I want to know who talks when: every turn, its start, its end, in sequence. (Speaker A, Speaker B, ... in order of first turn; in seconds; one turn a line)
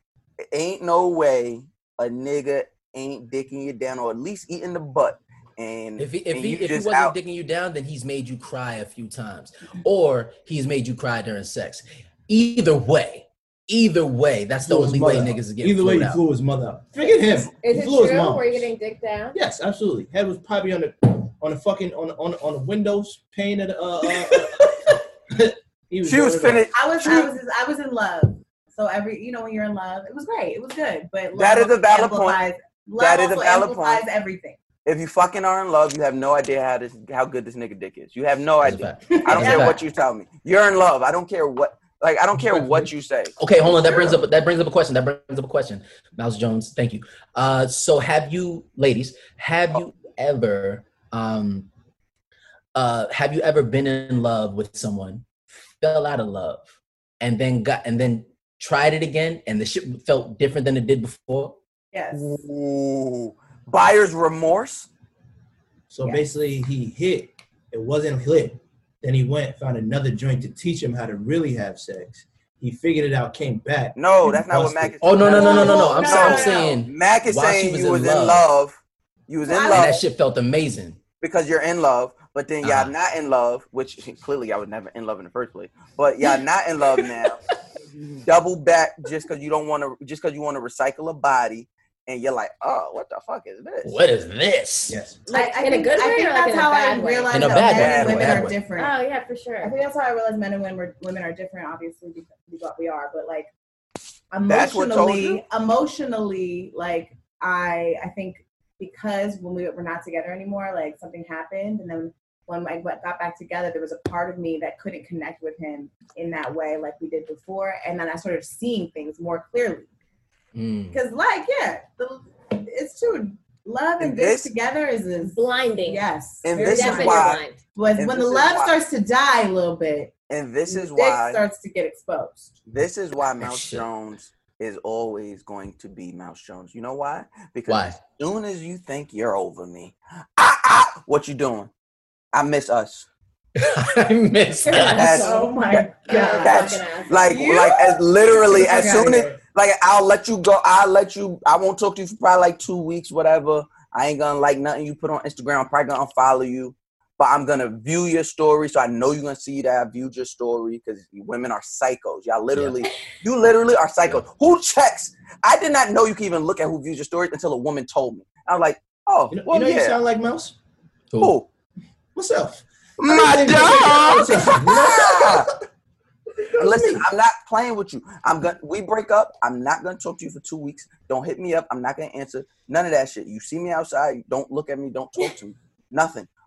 Speaker A: 0.5-7.1
Speaker B: 6.0-16.2
Speaker C: 14.6-18.7
Speaker D: 17.6-19.4
Speaker C: 19.3-26.7
Speaker A: 26.0-27.3
Speaker E: 26.7-34.6
Speaker A: 31.3-32.4
Speaker A: 33.0-34.0
Speaker A: 34.9-44.2
Speaker B: 38.6-39.8
Speaker E: 39.1-39.8
Speaker C: 42.4-42.9
Speaker B: 43.4-51.7
Speaker B: 52.7-56.7
Speaker B: 57.2-61.5
Speaker E: 61.9-62.4
Speaker A: 62.1-64.9
Speaker C: 65.9-75.5
Speaker A: 74.0-80.0
Speaker B: 75.0-78.5
Speaker E: 75.3-76.8
Speaker E: 79.5-80.0
Speaker B: 79.7-81.0
Speaker A: 81.2-87.4
Speaker B: 82.6-82.9
Speaker A: 88.2-94.0
Speaker B: 93.8-95.0
Speaker C: 94.9-95.2
Speaker E: 95.2-98.9
Speaker D: 95.3-97.7
Speaker B: 97.3-98.6
Speaker A: 97.6-98.5
Speaker D: 98.7-99.7
Speaker E: 99.6-103.5
Speaker E: 104.3-119.9
Speaker A: 104.5-105.4
Speaker B: 120.5-121.0
Speaker E: 120.9-130.1
Speaker A: 124.0-124.5
Speaker D: 125.3-127.6
Speaker A: 126.4-127.4
Speaker A: 128.0-128.8
Speaker A: 130.3-131.4
Speaker E: 130.7-132.5
Speaker A: 132.7-141.7
Speaker B: 133.4-133.8
Speaker B: 137.7-138.0
Speaker A: 142.3-143.1
Speaker B: 143.6-145.2
Speaker E: 144.7-149.4
Speaker D: 144.7-145.5
Speaker A: 144.9-170.0
Speaker D: 146.1-147.5
Speaker B: 162.5-162.8
Speaker C: 169.3-170.6
Speaker A: 171.2-171.5
Speaker C: 172.1-175.5
Speaker A: 173.0-175.5
Speaker C: 176.5-177.0
Speaker A: 176.6-186.3